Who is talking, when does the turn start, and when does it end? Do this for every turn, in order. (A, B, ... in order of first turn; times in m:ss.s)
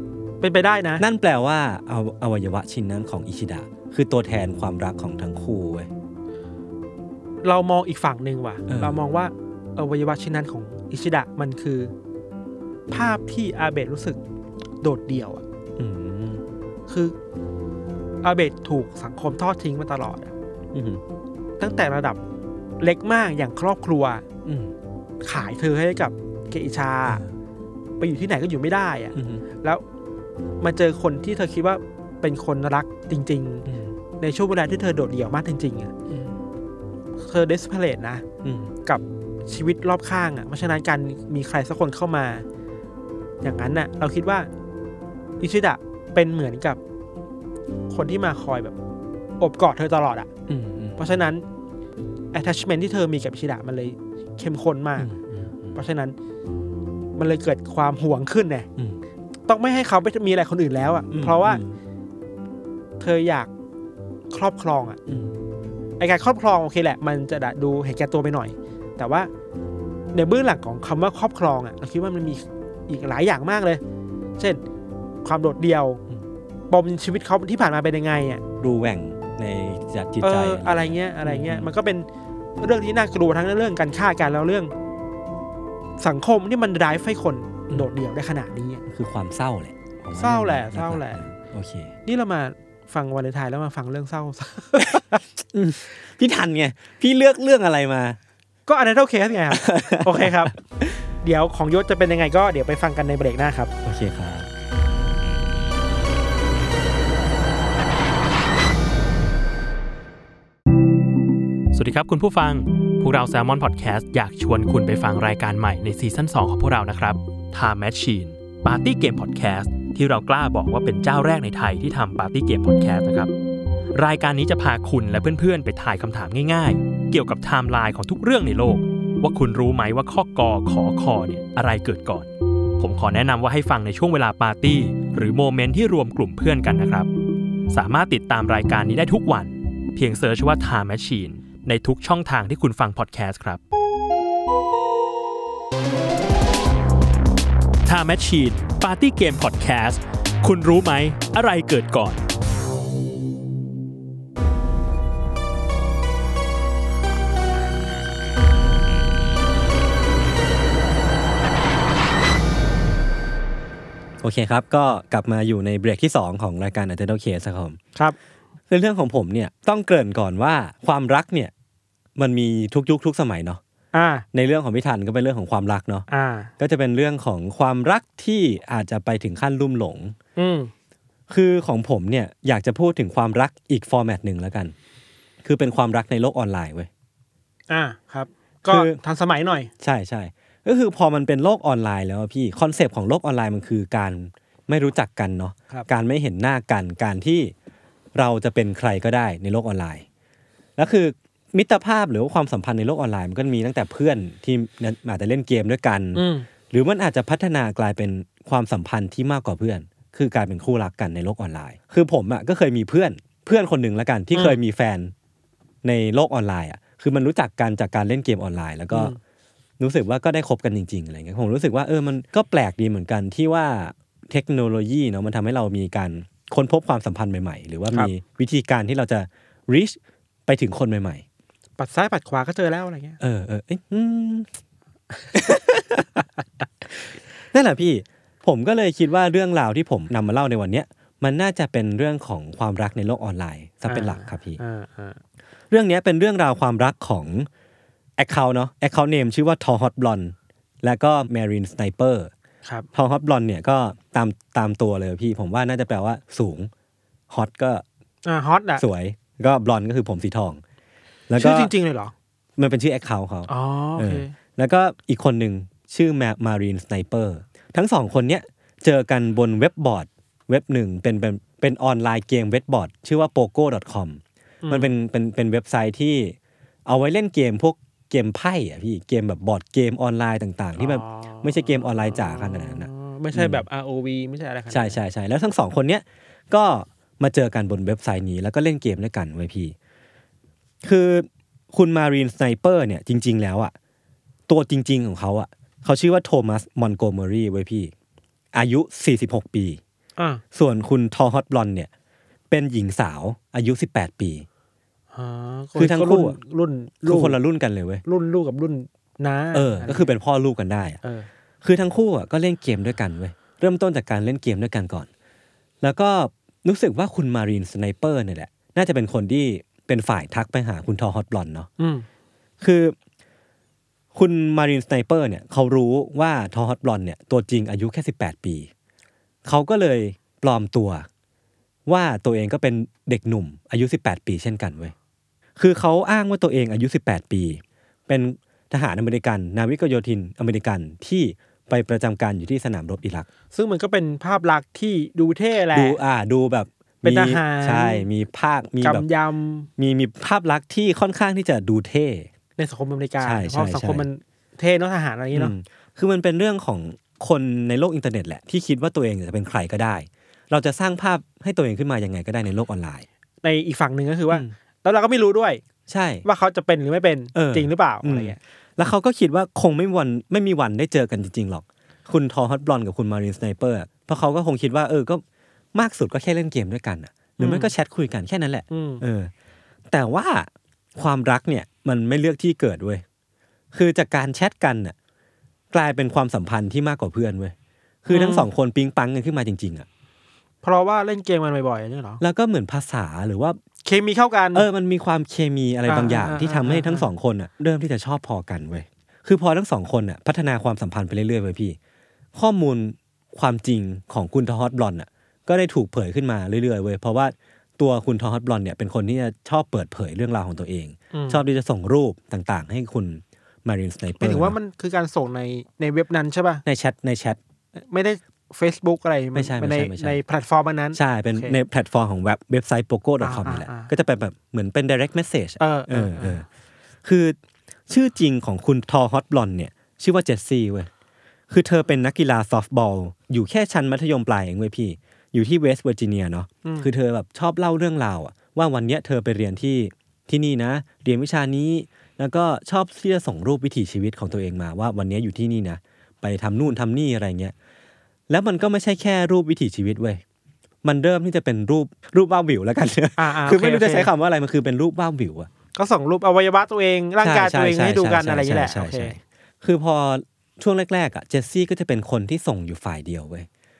0:00.4-0:01.0 A
0:01.0-0:05.9 B
0:07.4-0:11.9 A
0:08.7-0:09.0 B
0:12.9-0:14.2 A
0:14.8-0:15.4 A
0:15.8-0:16.4 B
0:16.9-0:17.2 A
0:18.2-0:20.3 A
0:20.7-0:21.0 B
0:21.6-0:22.2 A
0:22.8-0:24.2 A
0:24.4-0:24.7 B
0:25.2-0:27.2 A
0:27.1-0:27.4 B
0:28.0-0:29.8 A
0:29.1-0:29.4 B
0:30.6-0:33.7 A
0:33.7-0:34.0 B
0:34.2-0:35.9 A
0:36.1-0:36.4 B
0:37.2-0:38.2 A
0:38.4-0:38.8 B
0:38.9-0:42.4 A
0:43.4-0:44.5 A
0:45.4-0:46.8 A
0:47.9-0:48.8 A
0:49.4-0:50.3 A
0:50.5-0:51.2 B
0:51.0-0:51.4 A
0:52.3-0:55.1 A
0:55.0-0:55.8 B
0:55.8-0:56.2 A
0:57.2-0:58.7 A
0:58.8-0:59.0 B
0:59.5-1:01.6 A
1:01.1-1:01.8 B
1:03.0-1:03.5 A
1:04.3-1:05.0 A
1:05.1-1:05.4 B
1:06.0-1:09.3 A
1:10.1-1:13.8 A
1:15.2-1:16.0 A
1:16.7-1:18.4 A
1:18.6-1:21.7 B
1:20.2-1:22.1 A
1:22.6-1:24.7 A
1:26.0-1:28.8 A
1:28.9-1:31.9 B
1:30.2-1:31.2 A
1:32.1-1:35.2 A
1:34.8-1:38.2 B
1:38.7-1:40.5 A
1:39.5-1:41.1 B
1:41.2-1:43.7 A
1:43.8-1:44.5 B
1:51.7-2:03.3 C
2:04.0-2:17.1 C
2:17.7-2:23.6 C
2:27.8-2:32.2 C
2:44.2-2:47.8 B
2:48.7-2:51.5 B
2:52.2-2:53.6 B
2:53.9-2:54.2 A
2:54.3-2:56.1 B
2:56.1-2:56.5 A
2:56.6-3:00.2 B
3:00.4-3:00.7 A
3:01.3-3:04.7 B
3:05.4-3:06.9 B
3:07.7-3:09.7 A
3:08.7-3:09.0 B
3:09.8-3:17.5 B
3:18.2-3:20.1 B
3:20.8-3:35.1 B
3:26.2-3:26.5 A
3:34.3-3:34.6 A
3:35.8-3:39.1 B
3:38.9-3:39.2 A
3:39.8-3:51.2 B
3:51.8-3:53.2 A
3:53.2-3:54.5 B
3:55.3-3:56.2 B
3:57.5-4:04.6 B
4:03.9-4:05.2 A
4:05.7-4:07.5 B
4:08.2-4:12.3 B
4:13.0-4:16.7 B
4:17.3-4:17.8 B
4:18.2-4:18.8 A
4:18.8-4:20.6 B
4:21.3-4:21.7 B
4:21.4-4:22.1 A
4:22.6-4:43.6 B
4:23.5-4:24.3 A
4:34.6-4:34.9 A
4:40.8-4:45.0 A
4:44.7-4:49.8 B
4:50.8-4:53.7 B
4:54.5-4:57.9 B
4:58.5-4:59.8 B
5:00.2-5:00.4 A
5:00.5-5:01.9 B
5:02.5-5:04.5 B
5:05.1-5:07.4 A
5:05.8-5:06.4 B
5:07.0-5:08.0 B
5:08.0-5:10.1 A
5:09.5-5:11.0 B
5:11.0-5:11.3 A
5:11.6-5:15.1 B
5:15.8-5:21.7 B
5:21.8-5:22.1 A
5:22.6-5:23.0 B
5:24.1-5:28.7 B
5:29.4-5:31.1 B
5:31.9-5:34.9 B
5:35.6-5:43.3 B
5:43.5-5:46.0 A
5:45.7-5:49.0 B
5:47.0-5:48.1 A
5:48.8-5:49.7 A
5:49.8-5:52.3 B
5:52.6-5:55.5 A
5:53.2-5:54.1 B
5:55.3-6:03.1 B
6:03.4-6:05.6 A
6:05.9-6:06.2 B
6:06.2-6:08.4 A
6:07.3-6:15.2 B
6:15.7-6:19.3 B
6:17.4-6:17.7 A
6:18.7-6:19.0 A
6:19.9-6:23.0 B
6:23.7-6:25.0 B
6:25.7-6:29.9 B
6:28.1-6:28.5 A
6:30.6-6:32.2 A
6:32.2-6:33.6 B
6:33.8-6:34.7 A
6:34.5-6:41.8 B
6:35.9-6:37.1 A
6:42.3-6:54.6 B
6:51.1-6:51.4 A
6:54.2-6:56.6 A
6:56.6-6:57.4 B
6:57.8-7:01.6 A
6:59.3-7:00.2 B
7:00.9-7:06.4 B
7:03.2-7:03.9 A
7:05.6-7:06.4 A
7:07.0-7:07.4 B
7:07.9-7:10.9 B
7:11.5-7:27.5 B
7:16.6-7:16.9 A
7:28.3-7:30.2 B
7:30.8-7:35.5 B
7:33.2-7:34.1 A
7:35.8-7:39.2 A
7:37.2-7:43.5 B